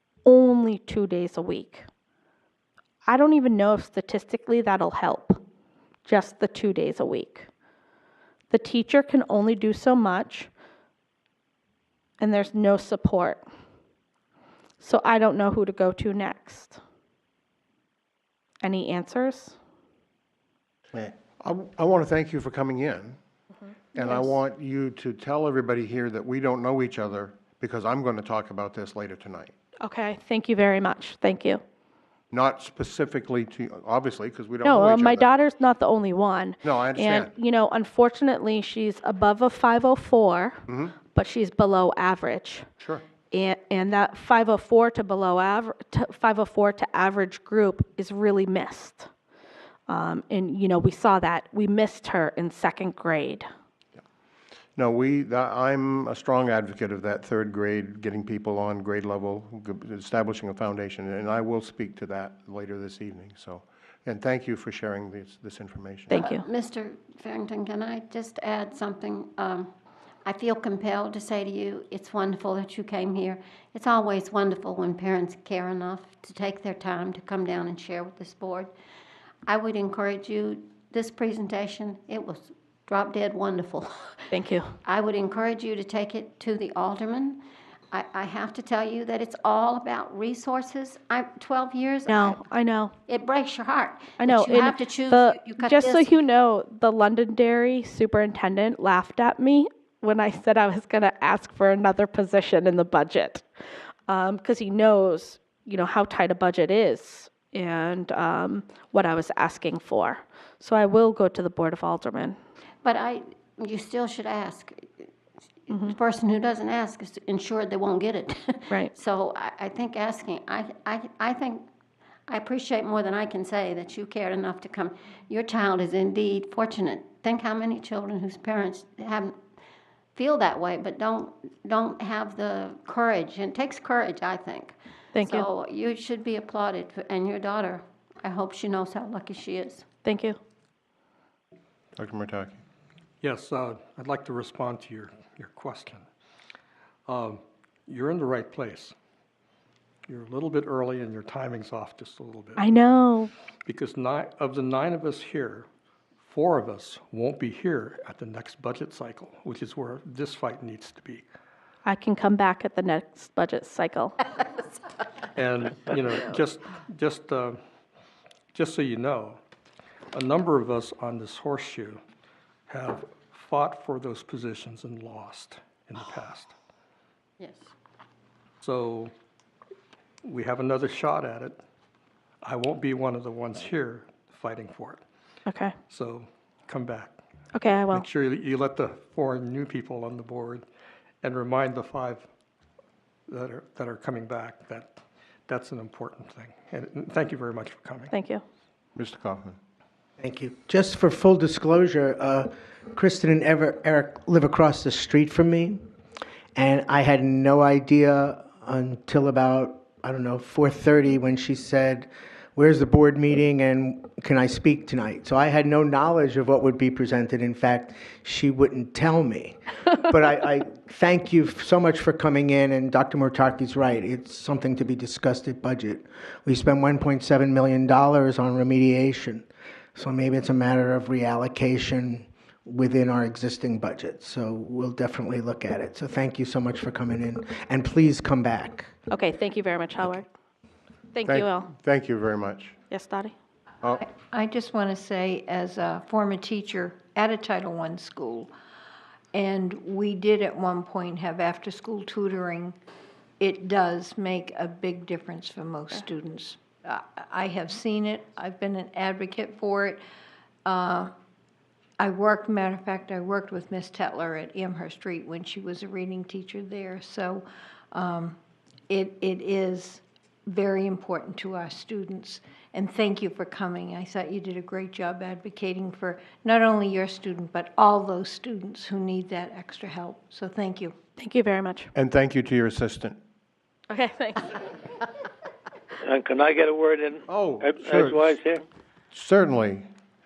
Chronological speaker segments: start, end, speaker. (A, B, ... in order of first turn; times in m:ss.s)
0:00.2-0:01.8 A
0:03.0-0:05.4 A
0:06.0-0:07.5 A
0:08.5-0:10.5 A
0:12.2-0:13.4 A
0:14.8-0:16.8 A
0:18.6-0:19.6 A
0:20.9-0:23.2 B
0:23.9-0:29.5 B
0:24.0-0:24.3 A
0:29.8-0:31.6 A
0:32.3-0:35.3 B
0:34.6-0:42.6 A
0:36.6-0:37.3 B
0:40.7-0:40.9 B
0:43.3-0:49.1 A
0:49.9-0:53.4 A
0:54.8-1:06.2 B
1:06.1-1:06.4 A
1:06.1-1:09.7 C
1:10.2-1:18.7 C
1:19.5-1:24.2 C
1:24.3-1:24.7 A
1:24.8-1:27.4 C
1:27.9-1:32.4 C
1:32.1-1:32.9 A
1:33.1-1:36.1 C
1:34.2-1:43.4 A
1:44.1-1:52.4 A
1:52.8-1:55.1 C
1:55.7-2:01.7 C
2:02.3-2:09.3 C
2:10.2-2:19.8 C
2:15.1-2:15.5 A
2:20.0-2:20.4 A
2:22.0-2:22.6 B
2:23.2-2:26.1 D
2:27.0-2:28.9 D
2:30.0-2:32.7 D
2:32.6-2:33.3 A
2:33.6-2:35.7 D
2:36.2-2:41.2 D
2:41.8-2:44.2 A
2:45.3-2:47.6 D
2:48.5-2:49.4 D
2:50.1-2:52.0 D
2:52.7-2:56.5 D
2:57.4-2:57.7 C
2:58.6-2:59.1 D
3:00.2-3:01.6 D
3:02.4-3:05.0 D
3:05.5-3:05.7 A
3:05.9-3:07.2 D
3:07.5-3:08.1 A
3:07.9-3:10.6 D
3:11.2-3:12.3 D
3:13.3-3:18.1 D
3:18.1-3:18.4 A
3:19.0-3:19.5 B
3:20.2-3:25.8 E
3:26.5-3:58.9 E
3:59.1-4:00.2 A
4:01.1-4:01.7 A
4:01.2-4:02.7 B
4:02.9-4:03.3 A
4:04.0-4:08.5 F
4:09.3-4:12.8 F
4:13.4-4:20.0 F
4:20.6-4:21.1 F
4:22.0-4:28.4 F
4:28.9-4:40.9 F
4:41.2-4:41.9 A
4:41.9-4:43.2 B
4:43.9-4:44.6 A
4:46.0-4:48.6 G
4:47.3-4:48.4 B
4:49.1-4:49.9 B